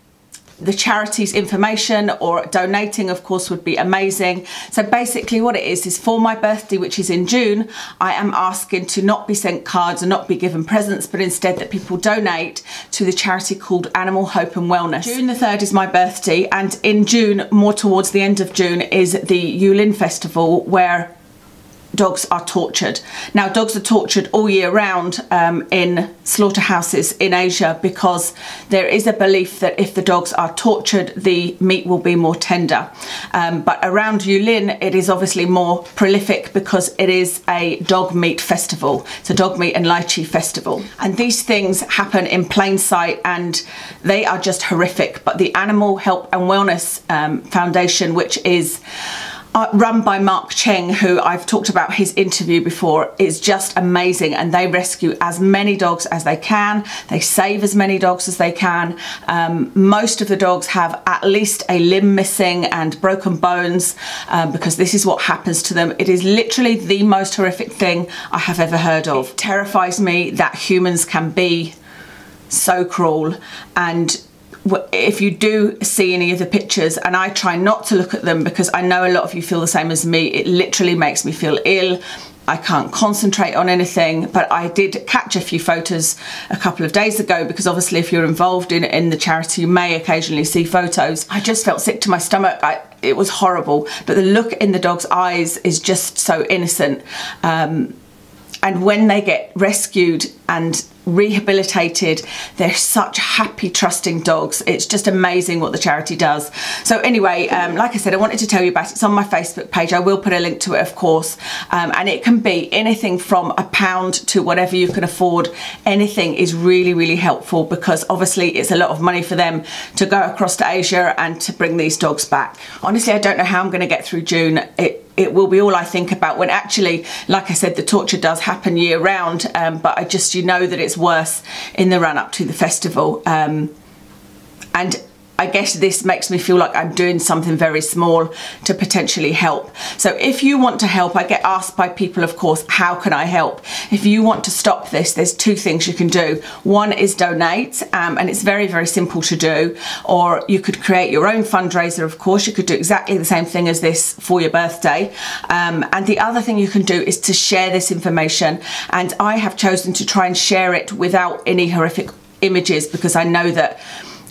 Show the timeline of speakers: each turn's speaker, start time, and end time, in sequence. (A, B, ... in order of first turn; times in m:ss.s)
0:00.6-0:21.1 A
0:21.9-0:48.8 A
0:49.5-1:11.7 A
1:12.5-1:37.9 A
1:38.6-2:13.7 A
2:14.7-2:43.8 A